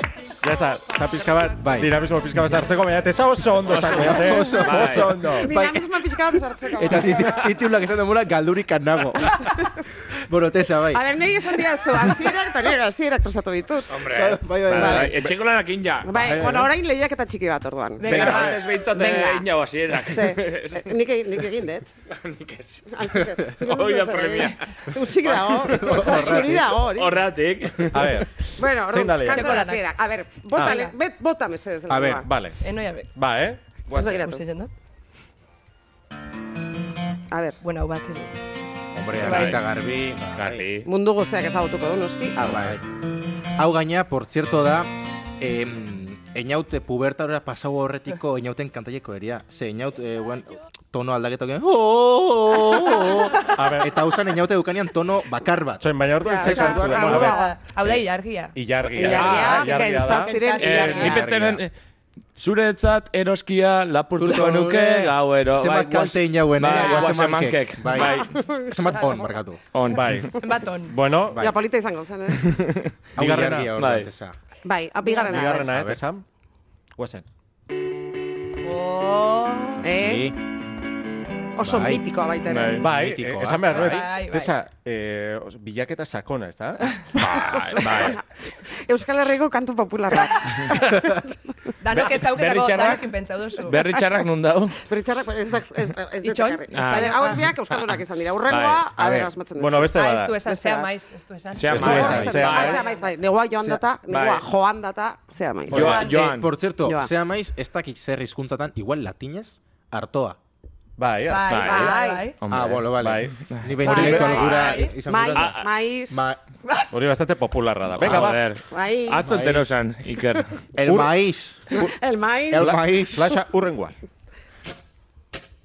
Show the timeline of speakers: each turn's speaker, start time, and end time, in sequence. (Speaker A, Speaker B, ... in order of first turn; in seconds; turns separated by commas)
Speaker A: 0.4-5.5, Speaker B: 1.6-2.0, Speaker C: 3.6-5.2, Speaker B: 3.7-6.1, Speaker D: 5.3-7.5, Speaker B: 6.7-11.0, Speaker D: 10.9-14.0, Speaker C: 13.9-16.2, Speaker B: 14.1-15.3, Speaker D: 14.7-15.1, Speaker D: 16.0-19.5, Speaker B: 16.2-16.7, Speaker E: 18.0-18.8, Speaker C: 18.1-20.9, Speaker B: 18.1-18.6, Speaker D: 20.0-21.9, Speaker C: 22.1-22.9, Speaker D: 22.9-27.2, Speaker C: 23.6-24.6, Speaker C: 25.2-28.3, Speaker B: 25.7-26.7, Speaker A: 27.9-29.6, Speaker D: 28.5-32.3, Speaker E: 29.2-29.8, Speaker E: 30.6-30.9, Speaker B: 31.9-32.3, Speaker A: 32.2-32.6, Speaker E: 32.6-33.1, Speaker A: 33.1-34.2, Speaker D: 33.9-34.4, Speaker E: 34.2-34.7, Speaker D: 37.3-37.6, Speaker E: 37.6-38.4, Speaker B: 38.9-40.6, Speaker C: 39.2-39.7, Speaker E: 39.2-39.6, Speaker C: 40.3-40.9, Speaker D: 40.8-42.7, Speaker B: 42.4-42.8, Speaker B: 43.6-57.3, Speaker A: 53.4-53.9, Speaker A: 55.8-58.0, Speaker D: 56.2-57.6, Speaker E: 56.4-58.6, Speaker A: 58.5-60.4, Speaker D: 58.9-61.2, Speaker C: 59.0-59.8, Speaker E: 59.5-61.2, Speaker C: 60.5-61.7, Speaker B: 60.9-61.6, Speaker C: 62.4-68.3, Speaker B: 64.2-69.6, Speaker E: 66.7-67.1, Speaker D: 67.9-69.2, Speaker C: 69.7-70.3, Speaker A: 69.9-71.5, Speaker E: 70.4-71.0, Speaker B: 71.3-71.5, Speaker D: 71.4-72.5, Speaker C: 72.4-72.9, Speaker B: 73.1-74.3, Speaker A: 73.2-73.7, Speaker C: 73.8-74.1, Speaker D: 74.6-75.7, Speaker E: 75.0-75.4, Speaker A: 75.3-76.2, Speaker B: 75.5-76.0, Speaker A: 77.0-77.2, Speaker E: 78.6-79.9, Speaker D: 79.8-80.3, Speaker B: 79.8-80.4, Speaker D: 81.5-82.9, Speaker B: 81.6-82.0, Speaker C: 82.5-82.9, Speaker A: 82.8-87.0, Speaker B: 82.8-84.1, Speaker E: 83.7-84.5, Speaker C: 87.1-88.2, Speaker D: 87.4-91.3, Speaker E: 91.8-94.0, Speaker C: 91.9-94.8, Speaker D: 94.8-100.9, Speaker E: 96.2-97.5, Speaker C: 96.7-97.8, Speaker C: 98.5-99.2, Speaker A: 99.5-100.4, Speaker E: 99.9-103.1, Speaker C: 101.5-102.8, Speaker A: 101.7-102.8, Speaker D: 101.7-106.1, Speaker B: 101.8-102.5, Speaker C: 104.1-104.4, Speaker C: 105.7-106.5, Speaker B: 105.7-110.4, Speaker E: 105.8-106.2, Speaker D: 106.8-107.1, Speaker A: 111.0-111.6, Speaker E: 111.2-112.4, Speaker C: 111.5-114.1, Speaker D: 111.6-112.2, Speaker B: 112.5-116.4, Speaker A: 113.0-114.3, Speaker D: 113.8-116.3, Speaker E: 114.0-115.0, Speaker C: 115.3-115.7, Speaker E: 116.6-116.9, Speaker A: 116.9-118.4, Speaker C: 118.0-120.7, Speaker B: 118.0-118.3, Speaker D: 118.7-119.3, Speaker B: 119.2-119.8, Speaker B: 120.7-121.9, Speaker A: 120.8-121.2, Speaker D: 121.7-122.9, Speaker B: 122.5-123.4, Speaker A: 122.5-124.0